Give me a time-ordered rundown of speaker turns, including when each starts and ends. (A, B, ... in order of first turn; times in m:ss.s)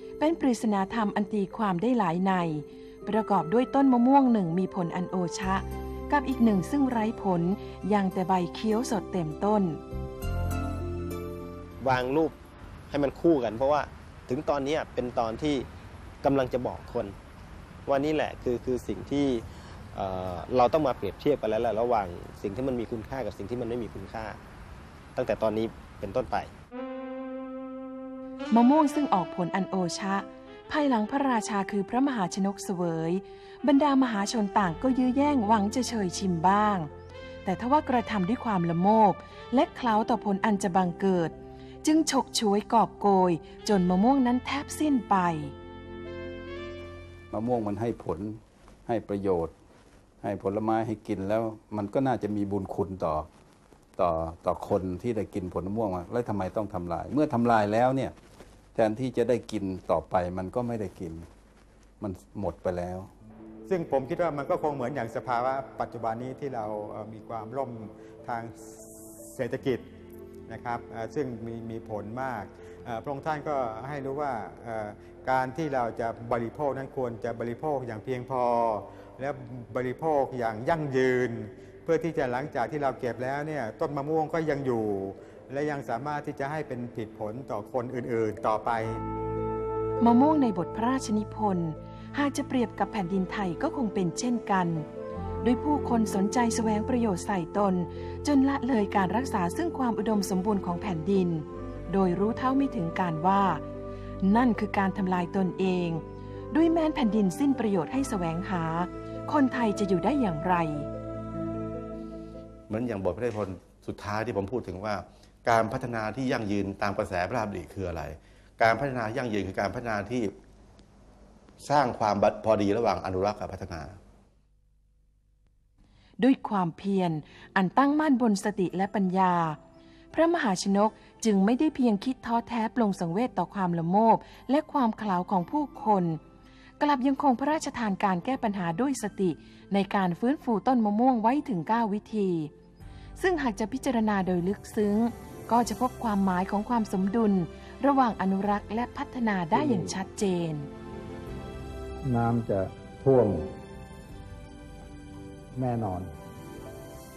0:00.2-0:09.8 A
0:11.8-0:12.4 B
0:12.9-0:15.7 B
0:16.2-0:17.2 B
0:17.9-0:24.4 B
0:25.2-0:26.5 B
0:28.5-0:36.9 A
0:37.4-0:45.5 A
0:47.3-0:49.5 C
0:50.2-0:53.3 C
0:54.0-0:58.2 C
0:58.8-1:01.3 C
1:02.0-1:03.1 C
1:03.7-1:09.8 D
1:10.5-1:29.0 D
1:30.0-1:34.9 A
1:35.4-1:43.6 A
1:44.2-1:50.9 A
1:52.7-2:00.3 E
2:01.6-2:04.0 E
2:06.2-2:09.6 A
2:10.1-2:16.2 A
2:16.8-2:22.5 A
2:23.2-2:30.7 A
2:29.5-2:30.0 F
2:32.0-2:33.5 F
2:35.5-2:36.1 F